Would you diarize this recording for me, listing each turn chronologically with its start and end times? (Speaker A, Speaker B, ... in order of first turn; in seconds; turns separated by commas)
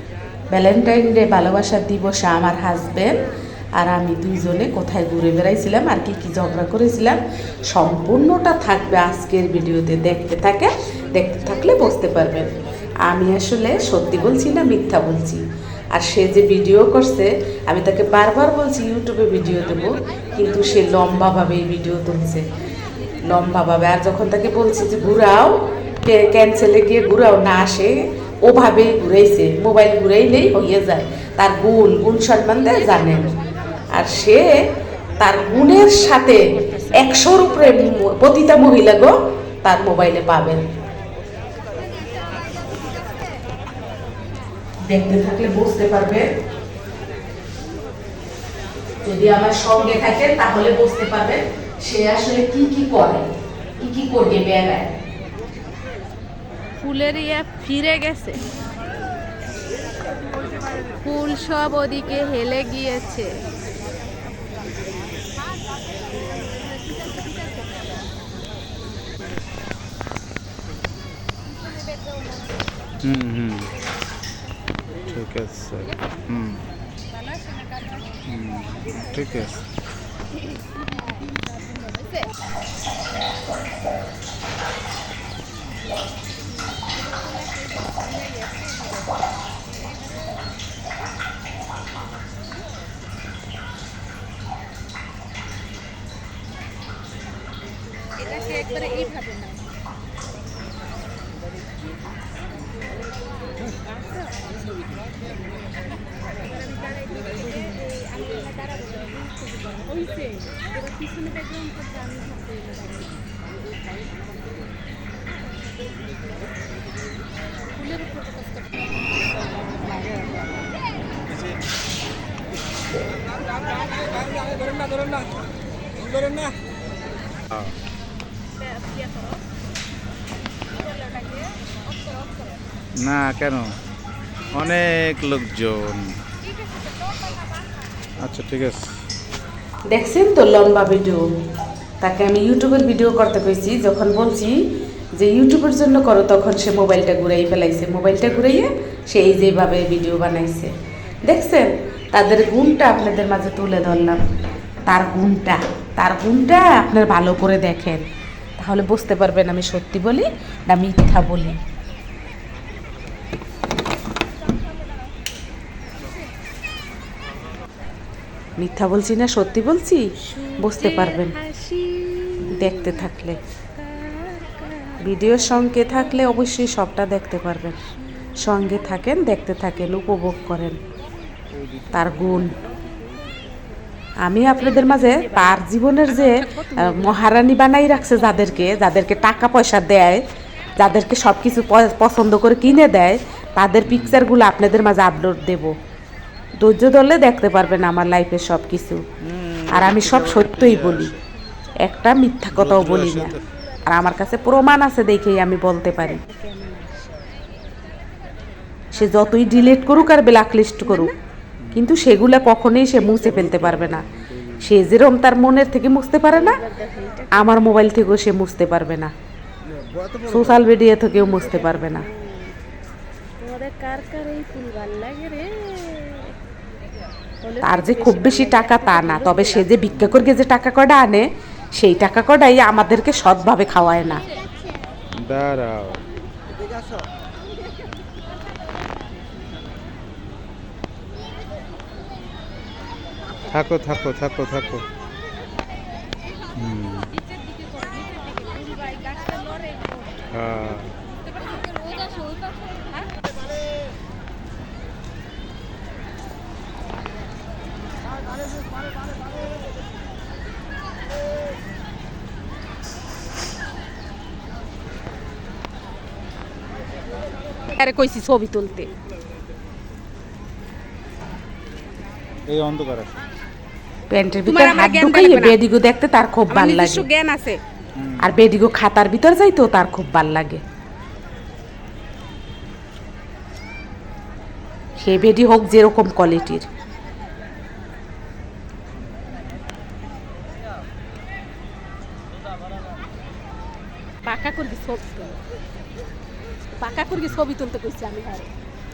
Speaker A: 0.5-3.2, Speaker A: 3.8-12.5, Speaker A: 13.0-15.4, Speaker A: 15.9-22.5, Speaker A: 23.2-33.3, Speaker A: 33.9-34.5, Speaker A: 35.2-40.6, Speaker B: 42.6-43.1, Speaker A: 44.9-46.3, Speaker A: 49.0-53.2, Speaker A: 53.8-54.9, Speaker B: 56.8-58.4, Speaker B: 61.0-63.4, Speaker C: 73.0-73.7, Speaker C: 75.1-76.7, Speaker B: 77.5-77.8, Speaker C: 78.2-79.7, Speaker B: 88.2-88.8, Speaker B: 98.3-99.6, Speaker B: 107.2-112.9, Speaker B: 117.8-120.5, Speaker C: 133.0-133.7, Speaker C: 134.5-136.2, Speaker C: 138.2-138.9, Speaker A: 139.9-141.2, Speaker A: 142.0-144.6, Speaker A: 145.2-150.7, Speaker A: 151.3-154.2, Speaker A: 154.9-158.1, Speaker A: 158.6-161.6, Speaker A: 168.6-171.4, Speaker B: 170.2-173.1, Speaker A: 172.5-173.4, Speaker B: 173.8-176.2, Speaker A: 175.0-177.8, Speaker A: 178.4-180.8, Speaker C: 181.5-183.3, Speaker A: 181.9-182.6, Speaker A: 184.2-190.2, Speaker B: 184.5-187.3, Speaker A: 190.8-195.7, Speaker C: 193.9-194.3, Speaker A: 196.6-199.0, Speaker C: 199.2-201.2, Speaker A: 199.7-201.1, Speaker A: 201.8-203.3, Speaker C: 202.5-203.4, Speaker A: 203.9-206.2, Speaker B: 206.3-207.2, Speaker A: 208.9-211.1, Speaker B: 209.3-209.8, Speaker B: 210.8-211.1, Speaker C: 211.6-211.9, Speaker A: 211.7-214.1, Speaker C: 213.3-214.5, Speaker A: 214.6-216.6, Speaker B: 216.3-217.6, Speaker A: 217.3-219.1, Speaker A: 220.2-222.1, Speaker B: 221.2-222.5, Speaker B: 223.4-226.3, Speaker B: 227.4-229.7, Speaker A: 227.6-231.2, Speaker C: 229.9-230.3, Speaker A: 231.8-234.2, Speaker C: 235.2-236.0, Speaker C: 243.5-244.9, Speaker C: 246.6-247.1, Speaker B: 247.6-249.8, Speaker C: 250.3-251.0, Speaker B: 267.7-268.9, Speaker C: 272.5-273.1, Speaker A: 274.1-277.1, Speaker B: 274.5-275.6, Speaker B: 276.5-277.6, Speaker C: 278.0-278.3, Speaker A: 278.2-280.6, Speaker A: 285.0-286.7, Speaker B: 294.3-295.4, Speaker B: 296.8-298.5